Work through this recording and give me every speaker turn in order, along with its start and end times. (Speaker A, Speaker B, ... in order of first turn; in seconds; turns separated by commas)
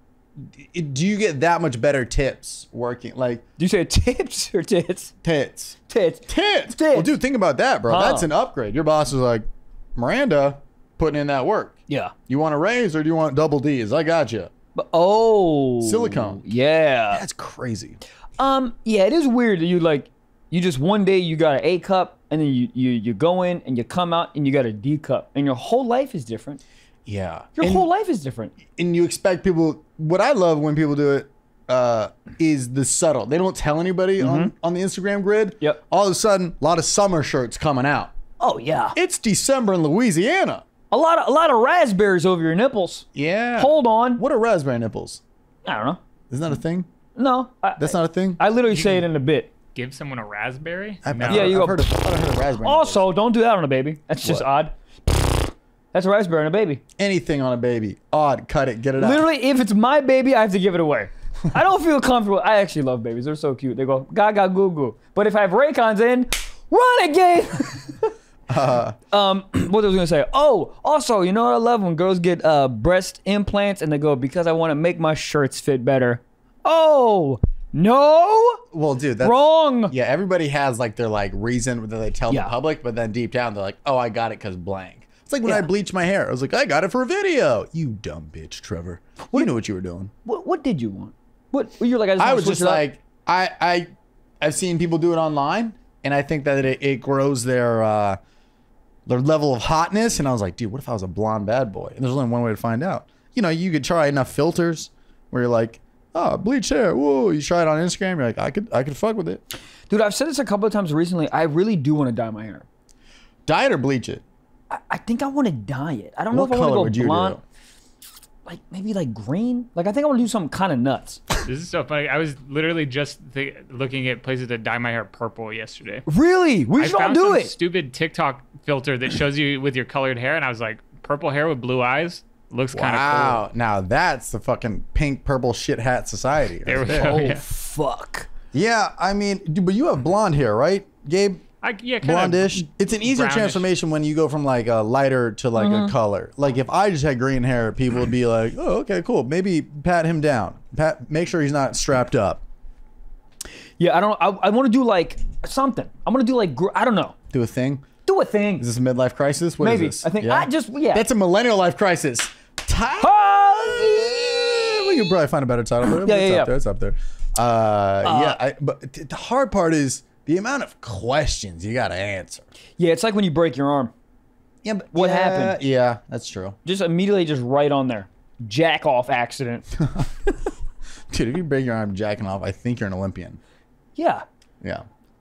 Speaker A: 0.6-3.4, Speaker B: 3.6-5.1, Speaker A: 5.2-11.8, Speaker B: 5.9-7.1, Speaker B: 7.9-8.3, Speaker B: 11.9-12.1, Speaker A: 12.3-14.5, Speaker B: 14.7-17.2, Speaker A: 15.8-16.4, Speaker A: 17.1-18.0, Speaker B: 18.4-26.6, Speaker A: 27.1-27.9, Speaker B: 27.6-28.5, Speaker A: 28.7-38.1, Speaker B: 34.2-34.5, Speaker B: 38.4-39.0, Speaker A: 38.9-40.6, Speaker B: 40.9-44.2, Speaker A: 43.1-45.2, Speaker B: 45.6-46.0, Speaker A: 46.3-46.9, Speaker B: 47.1-49.5, Speaker A: 47.8-48.4, Speaker C: 49.7-51.7, Speaker A: 51.0-53.0, Speaker B: 51.3-52.0, Speaker B: 52.6-56.8, Speaker A: 57.0-59.2, Speaker B: 59.0-68.1, Speaker A: 68.5-69.0, Speaker B: 69.1-78.6, Speaker A: 78.7-90.1, Speaker B: 79.2-79.9, Speaker B: 82.3-82.5, Speaker B: 90.2-92.8, Speaker A: 92.2-93.9, Speaker A: 94.4-98.2, Speaker A: 99.1-109.4, Speaker B: 109.9-112.6, Speaker A: 113.5-114.2, Speaker B: 114.7-117.4, Speaker A: 116.3-117.4, Speaker B: 118.4-121.2, Speaker C: 121.4-126.0, Speaker B: 126.1-127.5, Speaker C: 126.8-133.4, Speaker A: 132.7-137.3, Speaker C: 136.7-137.4, Speaker B: 136.9-138.3, Speaker A: 138.5-141.4, Speaker C: 141.6-143.7, Speaker A: 142.0-152.4, Speaker B: 145.6-145.9, Speaker B: 153.8-157.1, Speaker A: 157.3-157.9, Speaker B: 158.1-158.7, Speaker A: 158.6-172.5, Speaker B: 159.6-161.1, Speaker B: 163.0-165.1, Speaker B: 165.8-166.5, Speaker B: 168.0-168.4, Speaker B: 172.8-173.9, Speaker A: 174.6-176.6, Speaker B: 174.9-175.6, Speaker B: 176.6-179.7, Speaker A: 181.1-183.4, Speaker B: 183.9-184.2